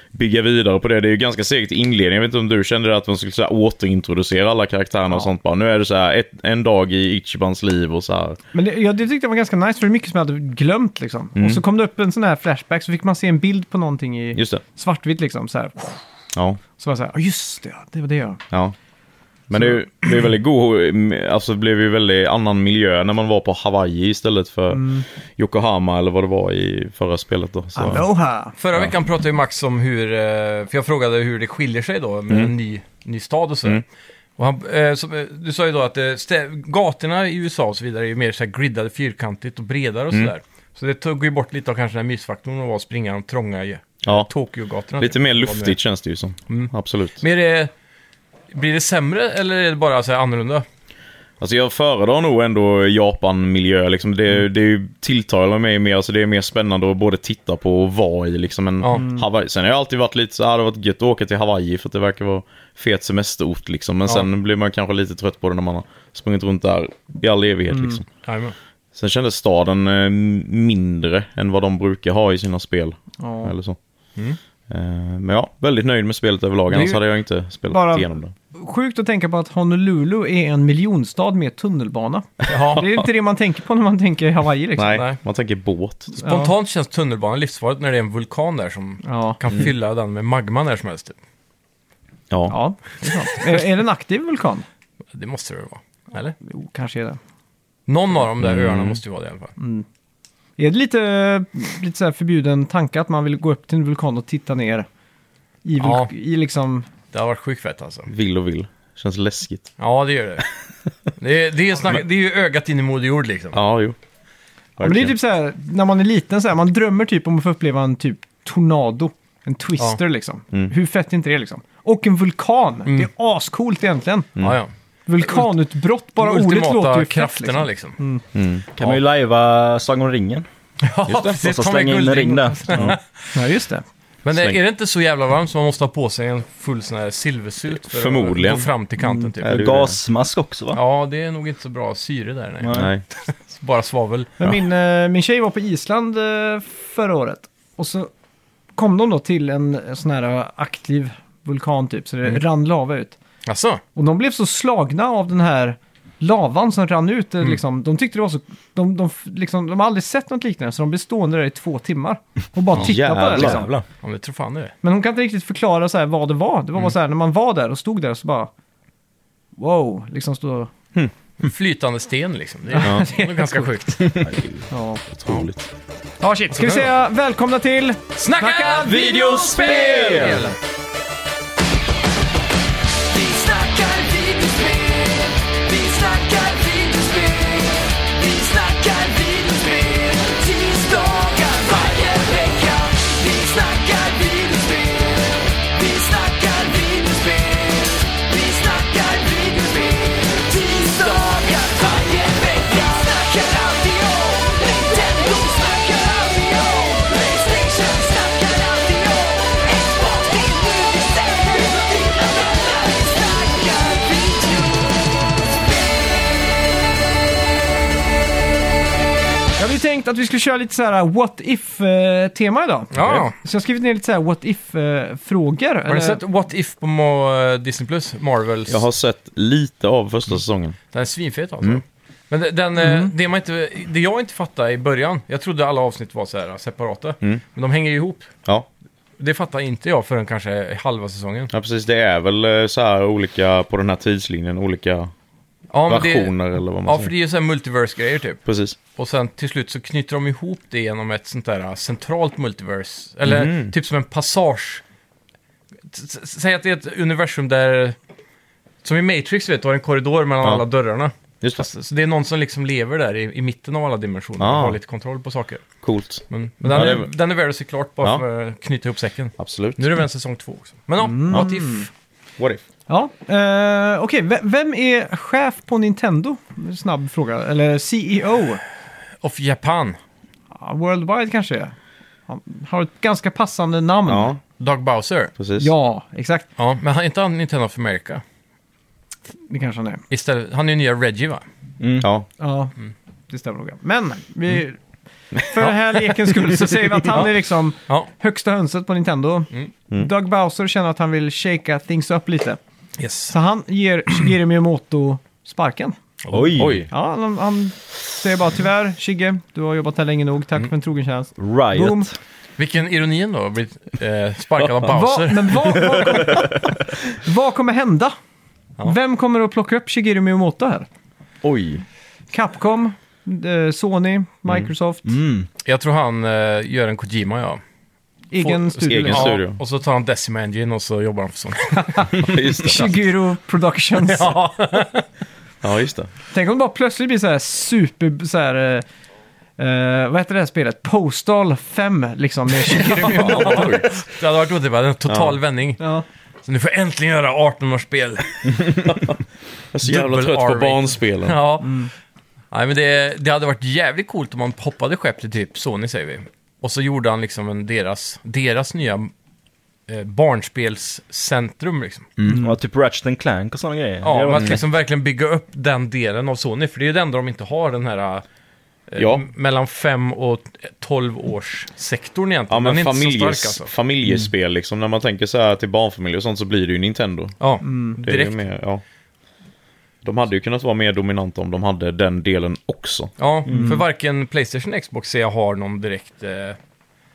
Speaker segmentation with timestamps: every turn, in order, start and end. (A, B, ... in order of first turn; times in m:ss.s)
0:00.1-0:08.4 A
0:08.5-0:16.0 B
0:11.4-0:11.6 A
0:14.4-0:14.6 A
0:16.8-0:18.4 B
0:19.5-0:24.8 A
0:24.7-0:25.0 B
0:25.4-0:28.0 A
0:27.8-0:28.6 B
0:28.6-0:33.8 C
0:34.4-0:45.8 C
0:45.0-0:47.2 A
0:46.5-0:47.7 C
0:48.5-0:50.6 C
0:51.4-1:08.1 A
0:58.9-0:59.2 B
1:07.7-1:08.0 B
1:08.2-1:08.5 C
1:08.9-1:13.8 A
1:13.2-1:13.5 B
1:14.7-1:18.3 A
1:17.7-1:25.0 B
1:22.5-1:22.8 C
1:24.8-1:26.2 A
1:26.2-1:31.2 C
1:26.2-1:26.5 B
1:29.0-1:29.4 B
1:32.3-1:32.6 A
1:32.5-1:34.6 B
1:35.1-1:36.3 C
1:36.4-1:37.2 B
1:37.9-1:39.5 C
1:38.4-1:39.0 A
1:39.6-1:39.8 B
1:40.6-1:44.9 B
1:45.6-1:46.9 B
1:45.8-1:46.1 C
1:47.1-1:48.1 C
1:48.1-1:49.7 A
1:49.8-1:50.4 C
1:51.2-1:53.6 C
1:53.5-1:54.0 A
1:54.8-1:55.1 A
1:54.8-2:04.3 B
2:04.4-2:04.7 C
2:05.1-2:08.2 B
2:05.2-2:05.5 C
2:06.2-2:08.0 C
2:08.3-2:08.6 A
2:08.8-2:10.5 D
2:10.8-2:13.3 C
2:11.0-2:11.4 A
2:11.4-2:13.0 D
2:13.3-2:13.8 B
2:14.2-2:19.6 C
2:17.8-2:18.7 A
2:19.0-2:19.3 B
2:19.4-2:20.0 A
2:19.4-2:20.8 D
2:20.7-2:24.3 C
2:22.6-2:22.9 D
2:22.7-2:23.0 A
2:24.4-2:28.1 B
2:28.8-2:33.2 B
2:33.4-2:33.8 C
2:33.9-2:43.7 B
2:42.7-2:43.7 A
2:43.3-2:43.8 D
2:44.0-2:44.7 C
2:44.8-2:48.5 B
2:49.6-2:50.7 B
2:51.4-2:54.2 C
2:52.7-2:53.7 B
2:52.8-2:53.1 A
2:54.7-2:55.4 B
2:55.1-2:55.7 A
2:56.2-3:00.4 B
2:56.6-2:56.9 C
2:58.2-3:00.6 C
2:58.8-3:00.5 A
3:03.1-3:34.8 E
3:39.6-3:46.2 B
3:42.9-3:43.3 C
3:45.9-3:48.8 C
3:48.7-3:50.8 A
3:50.9-3:58.3 C
3:52.8-3:53.1 B
3:59.2-4:01.5 C
4:01.5-4:05.1 A
4:05.7-4:08.4 C
4:05.9-4:07.1 A
4:08.4-4:08.8 A
4:09.0-4:14.8 C
4:13.2-4:13.7 A
4:15.9-4:18.0 C
4:18.8-4:25.6 C
4:21.4-4:21.7 A
4:24.4-4:24.8 A
4:25.8-4:27.1 A
4:26.3-4:31.9 C
4:29.4-4:29.9 A
4:31.0-4:31.9 B
4:32.9-4:38.6 B
4:39.2-4:40.0 C
4:40.6-4:41.7 B
4:42.3-4:44.3 B
4:44.1-4:44.4 A
4:44.6-4:45.3 C
4:45.4-4:45.7 A
4:45.6-4:46.4 B
4:46.6-4:48.2 C
4:49.5-4:50.0 B
4:50.1-4:51.4 C
4:51.8-4:52.1 D
4:52.0-4:52.3 A
4:52.4-4:52.7 B
4:53.3-4:54.8 B
4:55.4-5:02.6 B
5:03.0-5:03.3 C
5:03.3-5:06.0 B
5:06.2-5:06.7 C
5:06.3-5:06.8 D
5:06.6-5:06.9 A
5:06.9-5:12.1 B
5:11.4-5:12.2 D
5:12.6-5:15.9 C
5:14.8-5:16.6 B
5:17.1-5:18.1 B
5:18.8-5:20.9 B
5:21.4-5:21.8 A
5:22.3-5:25.1 B
5:25.0-5:25.5 D
5:25.6-5:27.6 C
5:28.3-5:29.4 B
5:28.4-5:32.2 C
5:28.8-5:29.6 A
5:31.9-5:34.3 B
5:32.2-5:32.9 A
5:34.0-5:35.0 C
5:35.6-5:36.1 A
5:36.3-5:38.8 B
5:39.6-5:43.9 B
5:42.8-5:45.8 C
5:43.0-5:43.9 A
5:45.1-5:45.4 A
5:45.8-5:46.0 B
5:46.4-5:48.7 C
5:48.5-5:49.2 A
5:49.7-5:51.4 A
5:49.8-5:51.8 C
5:51.6-5:51.9 B
5:52.5-5:59.1 C
5:59.9-6:02.1 C
6:02.3-6:02.6 B
6:02.3-6:04.6 D
6:04.0-6:08.2 C
6:04.3-6:04.6 A
6:08.9-6:13.7 C
6:09.0-6:09.2 A
6:12.5-6:17.3 A
6:17.4-6:18.4 C
6:17.6-6:18.0 B
6:18.0-6:18.8 A
6:20.0-6:23.1 A
6:23.2-6:26.6 C
6:23.5-6:23.7 D
6:23.5-6:23.8 B